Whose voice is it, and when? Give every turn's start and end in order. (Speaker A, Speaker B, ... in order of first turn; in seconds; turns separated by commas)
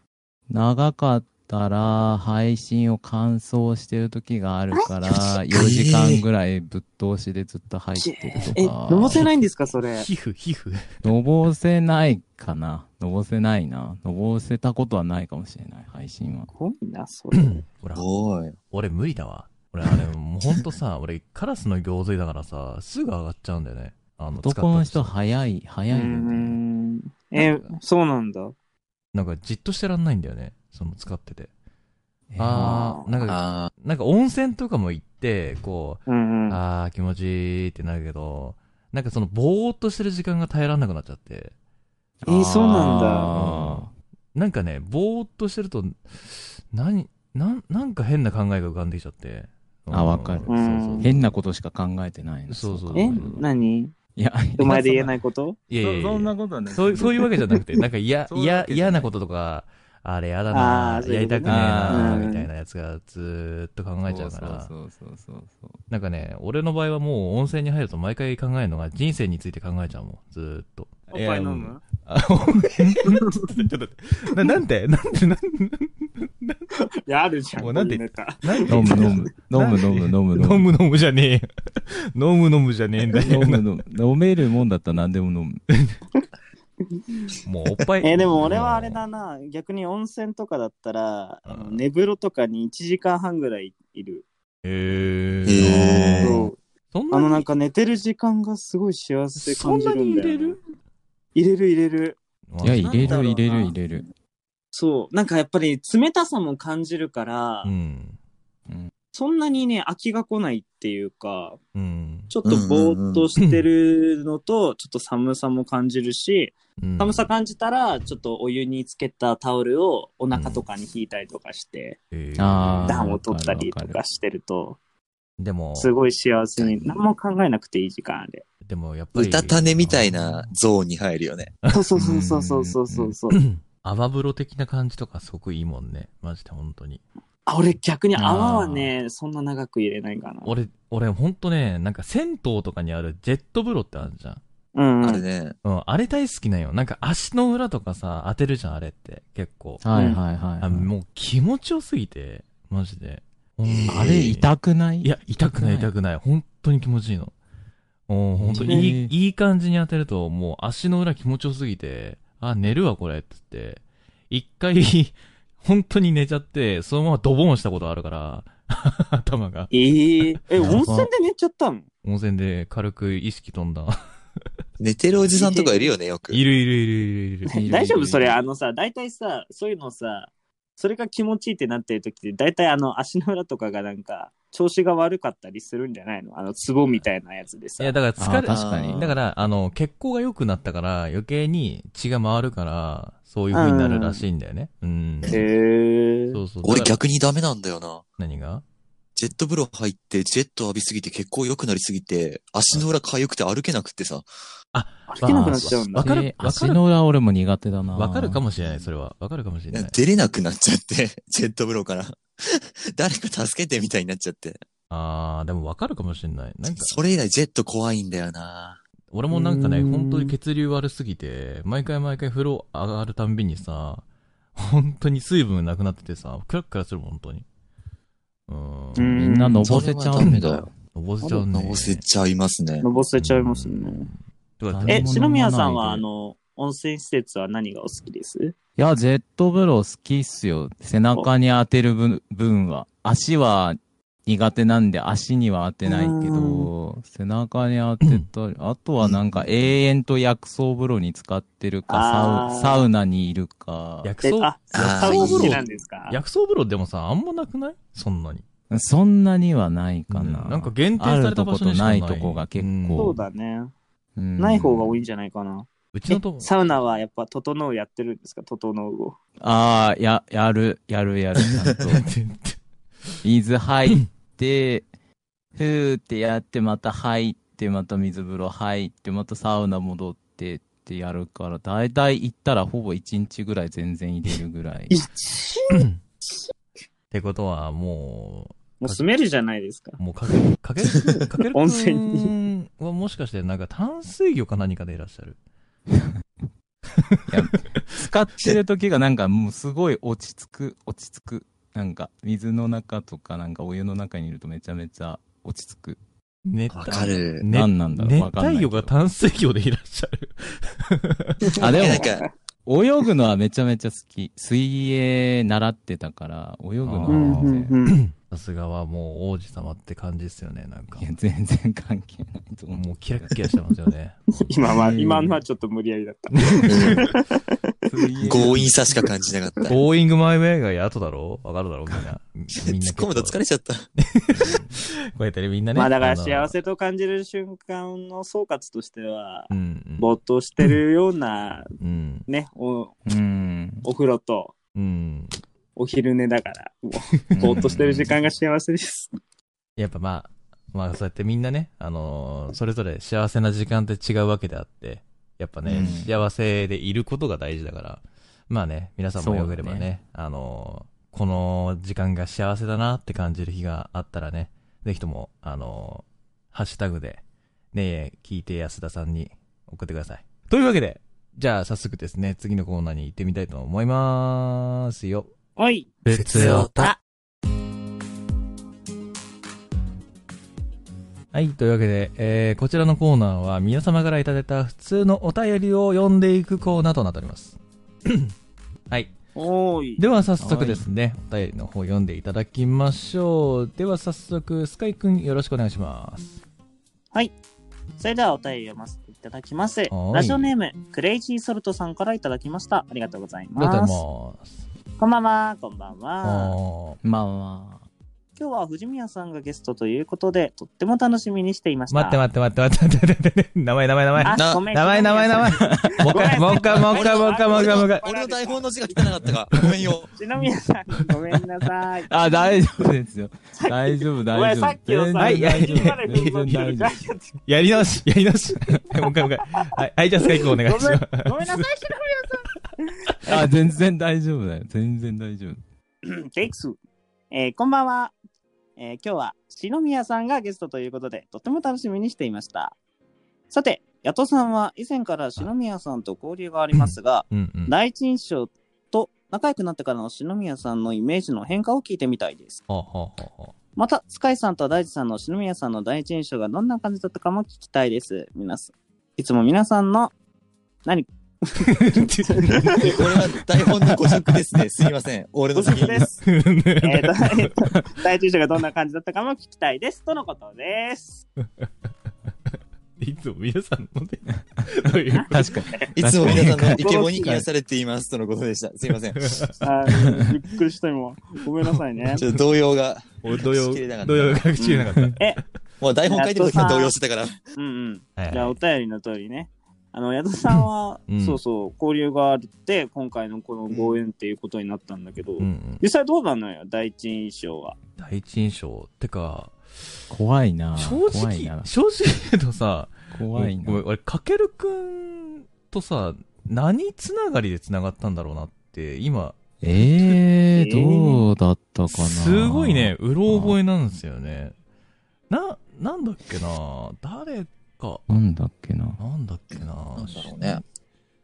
Speaker A: 0.5-9.3, Speaker B: 5.5-6.2, Speaker C: 8.0-10.1, Speaker D: 9.8-11.1, Speaker A: 11.0-16.5, Speaker C: 16.5-17.6, Speaker D: 17.3-18.0, Speaker B: 17.9-18.5, Speaker D: 18.7-25.1, Speaker A: 24.4-26.6, Speaker C: 25.9-28.5, Speaker D: 27.4-27.8, Speaker D: 29.1-31.5, Speaker A: 32.3-32.8, Speaker D: 32.4-41.5, Speaker C: 32.5-33.2, Speaker B: 33.3-33.7, Speaker C: 36.1-36.6, Speaker A: 42.2-43.9, Speaker C: 42.2-43.3, Speaker D: 43.0-51.3, Speaker A: 49.9-53.4, Speaker C: 50.5-51.1, Speaker D: 52.5-53.4, Speaker C: 52.9-53.9, Speaker A: 54.1-55.1, Speaker C: 54.6-55.6, Speaker D: 55.7-64.7, Speaker A: 55.8-57.4, Speaker A: 58.3-59.1, Speaker C: 60.5-62.5, Speaker A: 61.4-62.3, Speaker A: 64.0-65.8, Speaker D: 65.9-76.6, Speaker C: 71.1-71.8, Speaker C: 73.0-73.5, Speaker C: 77.0-79.3, Speaker D: 77.6-83.6, Speaker A: 78.7-80.7, Speaker A: 83.2-85.6, Speaker C: 87.0-87.3, Speaker D: 87.5-89.0, Speaker C: 88.0-94.2, Speaker D: 91.5-91.8, Speaker D: 94.6-96.4, Speaker B: 95.5-96.4, Speaker A: 95.6-96.5, Speaker C: 96.2-96.6, Speaker D: 96.9-97.5, Speaker C: 97.1-100.6, Speaker D: 99.4-100.6, Speaker C: 101.3-102.2, Speaker D: 102.5-103.2, Speaker A: 102.6-104.1, Speaker C: 102.7-103.8, Speaker C: 104.7-107.7, Speaker D: 107.6-108.2, Speaker C: 109.1-111.6, Speaker D: 111.8-112.3, Speaker C: 112.3-122.0, Speaker B: 112.4-113.2, Speaker D: 113.4-113.7, Speaker D: 116.8-117.3, Speaker D: 120.3-120.6, Speaker D: 122.1-123.1, Speaker A: 122.4-124.0, Speaker C: 122.9-124.8, Speaker D: 125.4-125.9, Speaker C: 125.8-128.4, Speaker D: 128.6-130.5, Speaker B: 129.1-131.5, Speaker D: 131.6-131.9, Speaker C: 131.7-133.4, Speaker A: 131.9-133.1, Speaker D: 133.3-137.0, Speaker C: 137.4-140.5, Speaker D: 138.2-138.9, Speaker D: 140.4-144.4, Speaker C: 144.8-145.2, Speaker B: 145.0-145.5, Speaker D: 145.6-149.8, Speaker A: 149.8-150.9, Speaker C: 149.9-150.2, Speaker D: 150.6-154.5, Speaker B: 153.6-154.3, Speaker A: 153.9-155.9, Speaker D: 155.0-157.3, Speaker D: 158.1-169.7, Speaker A: 158.4-159.1, Speaker C: 169.7-171.9, Speaker D: 170.2-170.9, Speaker A: 170.6-171.1, Speaker D: 172.0-174.0, Speaker B: 174.8-176.4, Speaker C: 175.3-175.9, Speaker D: 176.3-177.6, Speaker A: 177.5-178.4, Speaker C: 177.5-188.0, Speaker D: 187.8-195.4, Speaker A: 188.2-189.1, Speaker B: 188.5-189.2, Speaker C: 193.5-194.2, Speaker C: 195.3-196.4, Speaker D: 196.3-197.0, Speaker B: 196.6-198.0, Speaker D: 198.2-198.6, Speaker B: 199.1-204.3, Speaker D: 204.7-206.8, Speaker C: 205.1-206.1, Speaker A: 206.0-208.4, Speaker D: 208.0-210.0, Speaker B: 209.7-214.6, Speaker D: 214.9-217.0, Speaker B: 216.7-218.8, Speaker D: 219.1-224.0, Speaker C: 219.3-220.3, Speaker D: 224.6-227.4, Speaker D: 228.5-229.2, Speaker C: 229.0-229.7, Speaker A: 229.1-230.7, Speaker B: 229.6-230.7, Speaker D: 230.2-232.0, Speaker B: 231.5-232.8, Speaker C: 232.8-234.1, Speaker D: 233.2-235.1, Speaker A: 234.7-236.0, Speaker C: 234.9-238.5, Speaker A: 238.8-254.1, Speaker C: 245.8-246.7, Speaker B: 249.0-249.4, Speaker C: 251.9-252.9, Speaker D: 254.0-258.4, Speaker C: 254.2-256.2, Speaker B: 254.7-255.6, Speaker A: 258.7-263.2, Speaker D: 260.1-263.2, Speaker C: 263.0-263.7, Speaker A: 264.2-265.0, Speaker C: 264.4-269.2, Speaker D: 265.9-266.5, Speaker A: 269.4-272.1, Speaker D: 271.8-272.6, Speaker A: 273.2-274.9, Speaker A: 275.6-285.0, Speaker C: 284.9-286.5, Speaker D: 285.7-286.0, Speaker D: 287.1-289.0, Speaker C: 288.8-290.0, Speaker D: 290.0-295.4, Speaker C: 291.5-292.3, Speaker D: 297.0-298.0, Speaker A: 297.3-306.0, Speaker D: 306.5-311.5, Speaker B: 306.7-307.4, Speaker A: 307.5-308.9, Speaker C: 311.5-312.2, Speaker B: 311.5-312.3, Speaker A: 311.6-312.1, Speaker A: 312.7-317.8, Speaker D: 316.8-321.1, Speaker C: 317.1-318.0, Speaker A: 320.9-323.4, Speaker D: 322.7-324.5, Speaker C: 324.4-327.5, Speaker A: 324.7-325.4, Speaker D: 326.4-327.1, Speaker B: 326.7-327.1, Speaker A: 327.8-328.9, Speaker B: 328.2-329.8, Speaker D: 329.7-333.4, Speaker B: 332.6-333.9, Speaker D: 334.0-336.6, Speaker A: 334.4-334.7, Speaker C: 335.8-341.7, Speaker D: 339.5-340.1, Speaker D: 341.8-342.3, Speaker C: 342.3-342.9, Speaker A: 343.1-343.9, Speaker C: 343.8-344.5, Speaker D: 344.8-345.3, Speaker C: 345.8-349.1, Speaker A: 347.3-348.0, Speaker D: 347.4-348.1, Speaker D: 349.8-367.2, Speaker A: 355.7-356.1, Speaker A: 359.2-359.9, Speaker D: 367.7-375.3, Speaker C: 375.6-377.0, Speaker D: 376.1-376.9, Speaker D: 381.3-388.3, Speaker C: 389.4-390.0, Speaker D: 390.0-396.4, Speaker A: 390.4-390.8, Speaker C: 398.0-404.0, Speaker D: 399.9-400.5, Speaker D: 403.6-404.6, Speaker C: 405.0-406.6, Speaker D: 406.2-407.0, Speaker A: 407.0-407.8, Speaker C: 408.4-412.2, Speaker D: 411.9-418.1, Speaker C: 414.2-419.1, Speaker B: 414.3-414.6, Speaker A: 415.5-416.0, Speaker B: 416.7-420.1, Speaker C: 420.1-422.6, Speaker A: 422.1-427.0, Speaker C: 423.6-427.4, Speaker D: 425.2-426.5, Speaker D: 427.5-431.6, Speaker C: 430.2-432.5, Speaker C: 433.1-433.5, Speaker A: 433.3-435.6, Speaker C: 436.0-436.8, Speaker C: 437.3-438.1, Speaker C: 438.8-442.8, Speaker C: 443.5-452.6, Speaker D: 446.7-447.8, Speaker D: 452.7-453.5, Speaker C: 453.8-460.1, Speaker C: 460.8-463.1, Speaker D: 461.6-464.3, Speaker B: 462.8-466.1, Speaker C: 465.5-466.2, Speaker D: 465.7-467.7, Speaker C: 466.8-471.2, Speaker D: 473.0-475.7, Speaker C: 475.1-477.4, Speaker A: 475.3-476.8, Speaker B: 475.9-479.4, Speaker D: 479.2-479.6, Speaker C: 479.6-482.2, Speaker D: 481.7-482.4, Speaker B: 482.1-484.6, Speaker D: 483.2-485.5, Speaker C: 484.6-485.4, Speaker B: 485.8-487.4, Speaker C: 486.1-486.9, Speaker C: 487.5-497.8, Speaker D: 488.2-488.6, Speaker D: 490.5-491.4, Speaker D: 495.4-495.8, Speaker D: 498.0-499.5, Speaker A: 500.1-501.7, Speaker D: 500.8-510.1, Speaker A: 503.1-503.8, Speaker A: 509.6-513.5, Speaker C: 510.6-511.2, Speaker D: 511.9-514.5, Speaker D: 515.3-518.1, Speaker A: 518.1-519.0, Speaker D: 519.0-520.6, Speaker B: 520.0-520.6